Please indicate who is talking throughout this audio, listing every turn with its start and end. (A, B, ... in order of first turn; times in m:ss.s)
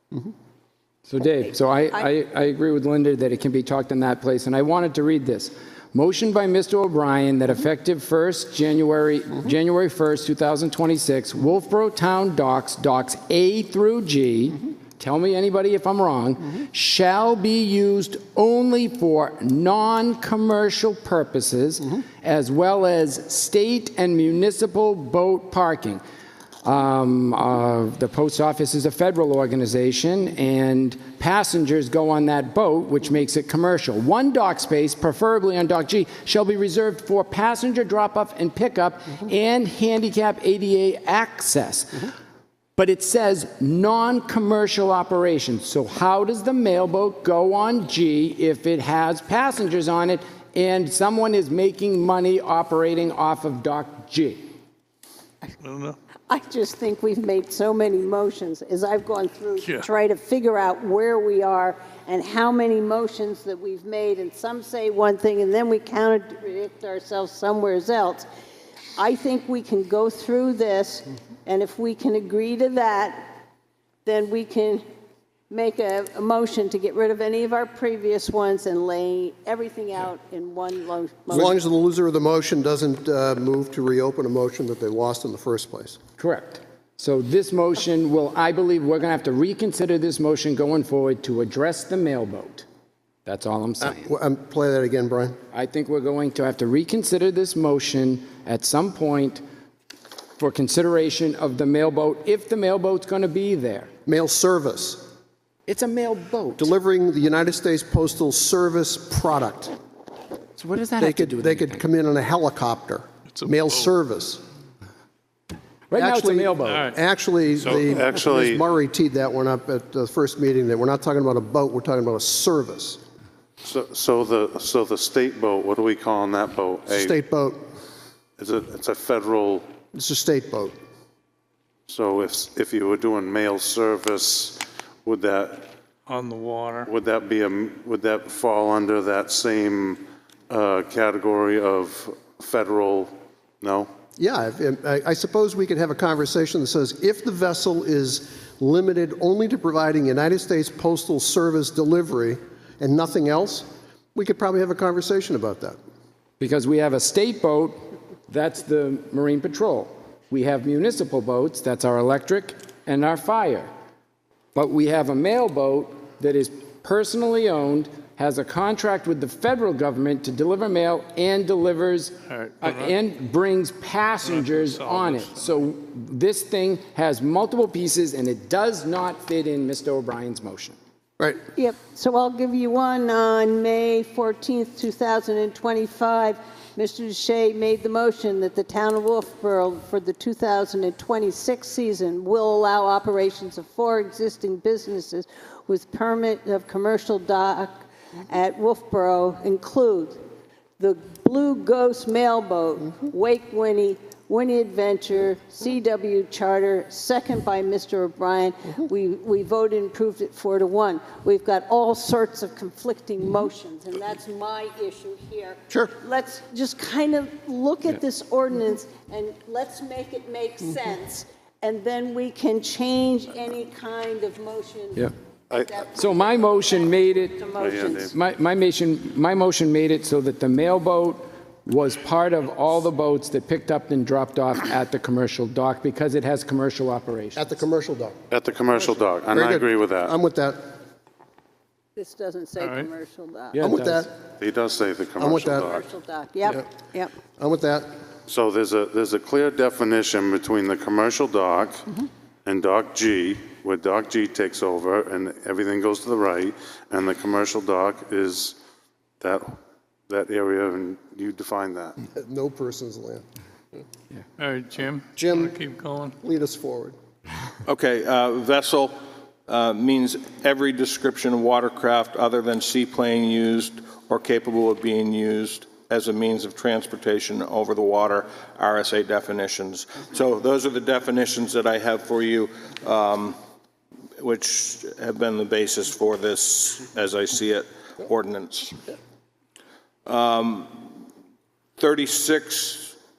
0:01.1-0:26.0 A
0:26.6-0:42.1 A
0:42.8-0:54.5 A
0:55.6-0:56.0 B
0:56.3-1:08.3 C
1:09.0-1:13.4 C
1:14.0-1:14.8 C
1:15.5-1:21.6 C
1:21.3-1:26.0 D
1:26.2-1:32.7 A
1:33.2-1:34.1 A
1:33.8-1:35.4 D
1:35.5-1:39.4 A
1:40.4-1:43.9 A
1:44.1-1:45.1 D
1:45.7-1:46.7 A
1:46.6-1:49.8 D
1:50.6-1:51.8 A
1:51.0-1:54.4 D
1:53.3-1:53.9 B
1:55.9-1:56.9 A
1:56.0-2:03.0 D
1:56.7-1:57.0 B
1:57.6-1:58.6 E
2:03.6-2:07.2 E
2:06.9-2:07.7 D
2:08.4-2:09.7 E
2:09.9-2:10.8 D
2:11.9-2:15.7 E
2:16.1-2:16.9 B
2:16.8-2:23.9 E
2:24.2-2:35.8 D
2:36.4-2:37.8 A
2:38.3-2:43.7 A
2:44.5-3:00.8 A
2:52.3-2:53.0 B
2:54.2-2:55.4 B
3:01.6-3:20.2 C
3:20.8-3:48.1 C
3:45.5-3:45.9 E
3:46.0-3:47.4 A
3:47.6-3:48.1 E
3:48.1-3:57.5 A
3:57.4-3:58.2 D
3:58.3-4:00.1 E
3:59.3-4:00.8 D
4:02.0-4:03.6 C
4:02.6-4:02.9 B
4:03.5-4:04.1 A
4:03.6-4:04.1 D
4:04.3-4:05.9 E
4:05.2-4:05.7 D
4:05.3-4:07.1 C
4:07.4-4:07.9 D
4:08.3-4:11.9 E
4:12.4-4:18.6 E
4:19.2-4:22.0 E
4:22.2-4:23.2 D
4:24.4-4:26.2 B
4:25.2-4:25.6 D
4:26.2-4:27.0 D
4:27.7-4:28.9 F
4:29.5-4:43.4 F
4:44.2-4:48.8 F
4:50.1-4:50.7 F
4:51.8-4:53.0 F